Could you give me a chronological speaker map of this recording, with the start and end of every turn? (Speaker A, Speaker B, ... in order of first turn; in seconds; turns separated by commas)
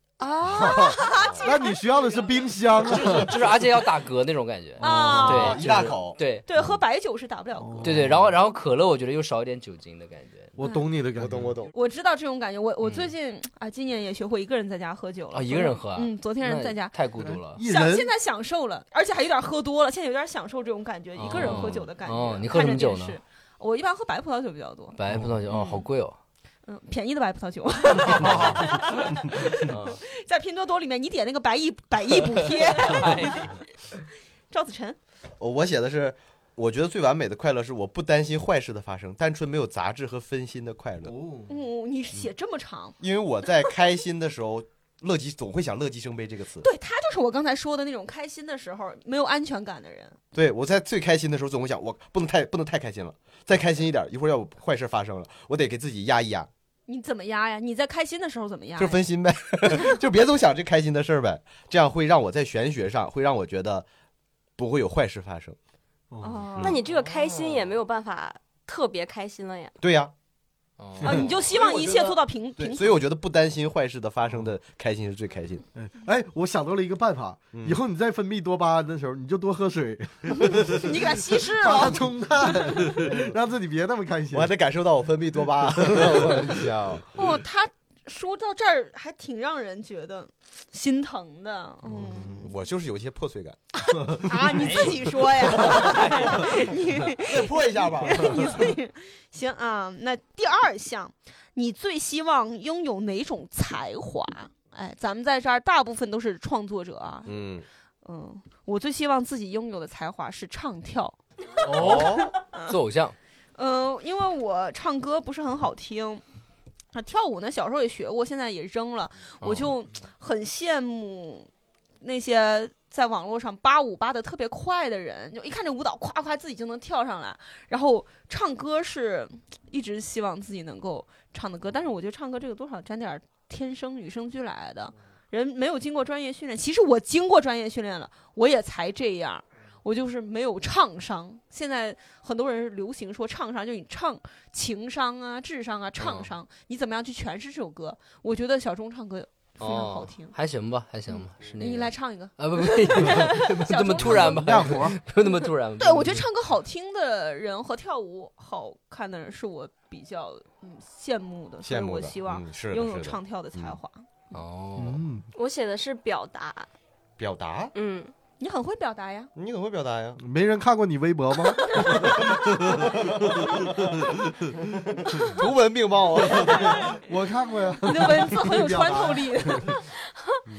Speaker A: 0.2-1.8, Speaker B: 0.4-3.4, Speaker C: 1.1-1.4, Speaker D: 2.9-6.4, Speaker B: 4.8-5.5, Speaker A: 4.8-5.6, Speaker C: 5.2-6.2, Speaker A: 6.5-8.0, Speaker B: 7.6-8.3, Speaker D: 7.8-10.6, Speaker B: 10.6-11.5, Speaker C: 11.2-11.7, Speaker A: 11.7-16.9, Speaker D: 12.8-13.1, Speaker D: 15.3-17.6, Speaker B: 17.2-18.1, Speaker A: 17.6-24.9, Speaker D: 21.1-23.2, Speaker D: 24.9-26.2, Speaker A: 25.5-25.8, Speaker A: 26.6-33.6, Speaker D: 28.1-28.6, Speaker D: 29.6-30.0, Speaker D: 32.6-33.5, Speaker A: 34.5-35.0, Speaker C: 35.4-41.1, Speaker B: 41.0-41.5, Speaker A: 41.5-43.0, Speaker C: 43.0-46.7, Speaker A: 46.6-50.1, Speaker C: 50.3-56.5, Speaker A: 56.9-59.0, Speaker C: 58.8-63.9, Speaker C: 64.6-65.6, Speaker B: 66.1-66.5, Speaker A: 66.2-66.8, Speaker C: 66.6-66.8, Speaker E: 66.6-69.8, Speaker C: 69.8-70.1, Speaker D: 70.8-71.3, Speaker A: 71.0-73.0, Speaker C: 71.0-72.2, Speaker C: 72.7-75.6, Speaker B: 75.7-84.5, Speaker A: 80.4-83.0, Speaker C: 84.3-87.1, Speaker B: 85.8-86.5, Speaker A: 87.1-92.5, Speaker B: 91.9-92.5, Speaker C: 92.1-93.6, Speaker A: 93.9-107.4, Speaker B: 94.0-94.3, Speaker D: 94.5-95.0, Speaker C: 95.4-98.7, Speaker D: 95.5-96.3, Speaker C: 107.2-107.7, Speaker A: 108.0-112.8, Speaker D: 111.6-113.1, Speaker A: 113.5-116.2, Speaker A: 116.9-121.5, Speaker A: 122.0-150.3, Speaker D: 146.0-146.3, Speaker D: 149.6-156.2, Speaker A: 151.1-154.8, Speaker B: 154.2-155.0, Speaker A: 155.8-164.4, Speaker C: 161.6-163.8, Speaker D: 164.3-165.0, Speaker B: 164.8-165.3, Speaker E: 165.3-166.7, Speaker C: 167.2-167.7, Speaker E: 167.7-168.1, Speaker A: 168.4-169.3, Speaker C: 169.3-170.2, Speaker B: 170.2-174.1, Speaker C: 171.9-174.1, Speaker C: 175.0-177.0, Speaker B: 176.3-179.8, Speaker A: 177.8-179.8, Speaker E: 180.2-180.4